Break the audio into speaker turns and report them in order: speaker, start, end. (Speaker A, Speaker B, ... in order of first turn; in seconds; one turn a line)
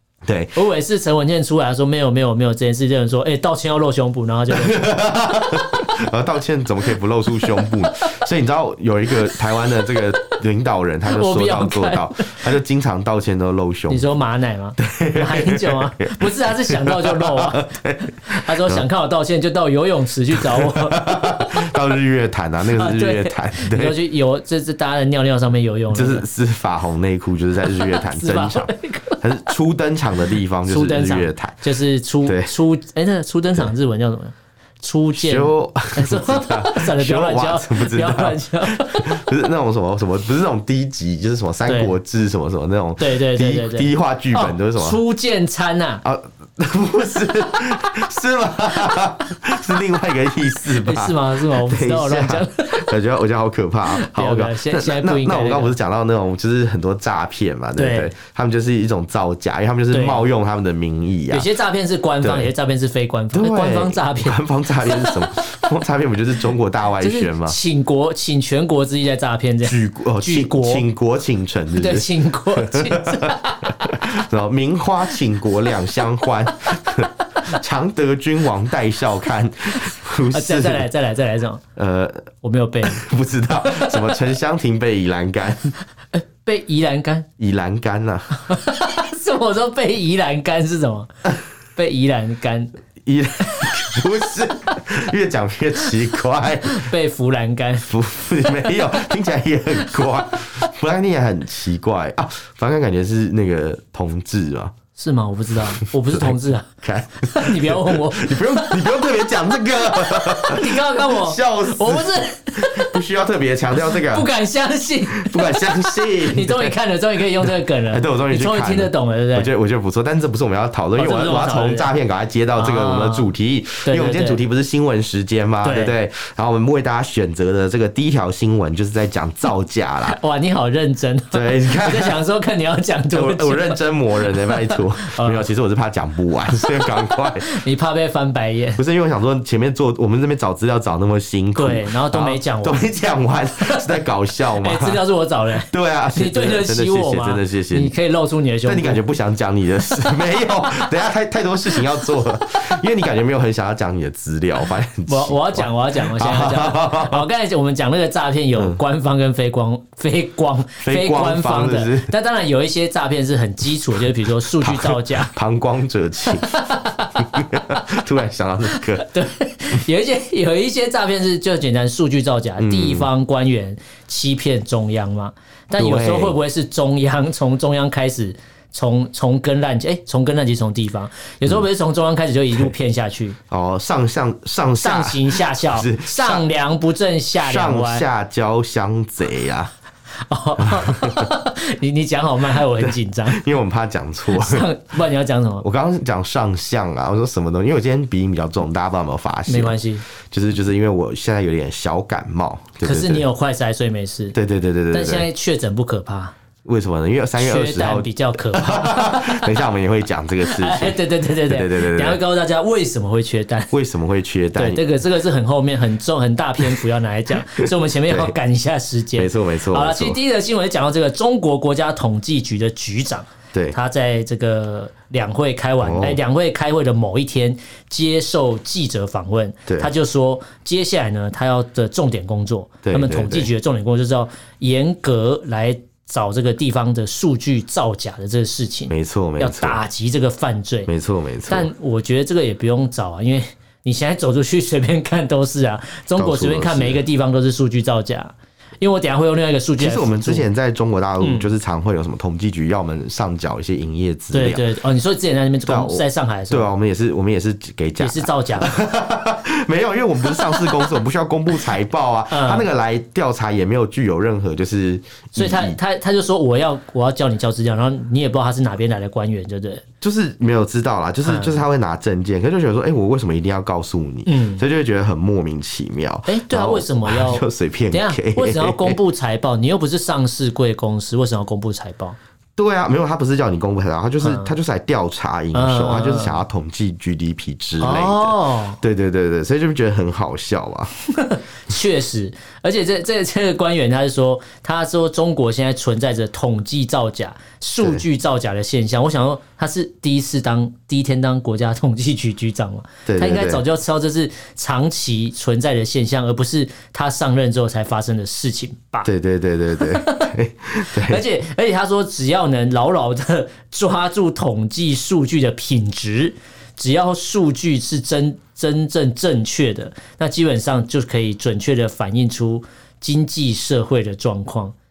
Speaker A: 0.3-0.6
Speaker B: 0.6-5.9
Speaker A: 4.5-14.1
Speaker B: 7.4-8.2
Speaker B: 11.1-12.5
Speaker B: 13.9-17.6
Speaker A: 14.8-18.9
Speaker B: 18.3-21.7
Speaker A: 20.4-24.0
Speaker B: 22.7-26.3
Speaker A: 25.9-31.6
Speaker B: 27.7-29.2
Speaker B: 30.7-39.2
Speaker A: 32.3-32.5
Speaker A: 35.1-45.0
Speaker B: 41.7-41.9
Speaker B: 43.0-46.0
Speaker A: 46.0-61.5
Speaker B: 50.7-52.9
Speaker B: 53.9-55.8
Speaker B: 57.8-58.1
Speaker B: 59.9-60.2
Speaker B: 61.3-65.2
Speaker A: 62.2-62.5
Speaker A: 63.3-67.6
Speaker B: 67.0-70.9
Speaker A: 69.6-80.9
Speaker B: 71.8-73.9
Speaker B: 80.3-81.6
Speaker A: 81.8-82.3
Speaker B: 82.4-83.0
Speaker A: 82.8-85.8
Speaker B: 83.6-84.2
Speaker B: 86.1-87.3
Speaker A: 87.4-88.4
Speaker B: 88.4-91.1
Speaker B: 91.8-92.7
Speaker A: 93.0-96.9
Speaker B: 93.6-94.0
Speaker B: 96.7-97.9
Speaker A: 97.8-104.7
Speaker B: 105.0-106.7
Speaker A: 105.8-114.3
Speaker B: 107.2-109.0
Speaker B: 109.9-113.0
Speaker B: 113.8-119.5
Speaker A: 115.1-116.7
Speaker A: 117.4-130.2
Speaker B: 121.0-121.9
Speaker B: 122.6-123.3
Speaker B: 123.8-124.4
Speaker B: 125.6-126.0
Speaker B: 130.1-135.5
Speaker A: 131.3-132.2
Speaker A: 133.1-137.6
Speaker B: 137.4-138.8
Speaker A: 138.8-145.0
Speaker B: 141.6-142.8
Speaker B: 143.6-143.9
Speaker B: 144.6-149.0
Speaker A: 145.6-147.9
Speaker A: 148.7-157.2
Speaker B: 150.0-150.9
Speaker B: 151.8-152.8
Speaker B: 155.1-165.3
Speaker A: 158.6-158.8
Speaker A: 160.8-162.1
Speaker A: 164.6-169.1
Speaker B: 166.3-167.7
Speaker B: 168.7-183.4
Speaker A: 172.6-173.1
Speaker A: 175.8-176.4
Speaker A: 183.5-186.5
Speaker B: 184.8-188.1
Speaker A: 187.4-189.7
Speaker B: 190.3-193.4
Speaker A: 190.6-191.3
Speaker A: 192.8-194.7
Speaker B: 194.3-195.7
Speaker A: 195.6-199.8
Speaker B: 199.5-200.0
Speaker A: 200.3-203.3
Speaker B: 202.8-204.3
Speaker A: 204.3-205.3
Speaker B: 204.9-206.3
Speaker A: 206.7-212.2
Speaker B: 207.4-209.6
Speaker B: 210.4-213.7
Speaker A: 213.7-214.8
Speaker B: 214.6-240.9
Speaker A: 217.4-218.3
Speaker A: 219.2-220.2
Speaker A: 225.8-226.2
Speaker A: 229.7-229.9
Speaker A: 232.8-233.5
Speaker A: 238.9-239.8
Speaker A: 240.9-241.7
Speaker B: 241.5-250.5
Speaker A: 246.2-247.0
Speaker A: 249.8-254.7
Speaker B: 251.2-251.5
Speaker B: 254.3-256.7
Speaker A: 255.7-265.8
Speaker B: 258.0-258.7
Speaker B: 260.3-260.9
Speaker B: 262.3-262.7
Speaker B: 265.4-269.9
Speaker A: 270.0-279.0
Speaker B: 271.2-271.6
Speaker B: 274.3-274.6
Speaker B: 276.3-282.2
Speaker A: 282.6-290.9
Speaker B: 284.2-284.6
Speaker B: 285.5-286.4
Speaker B: 287.8-288.8
Speaker B: 291.1-309.1
Speaker A: 303.1-303.6
Speaker A: 309.1-311.2
Speaker B: 309.8-310.3
Speaker B: 310.9-324.7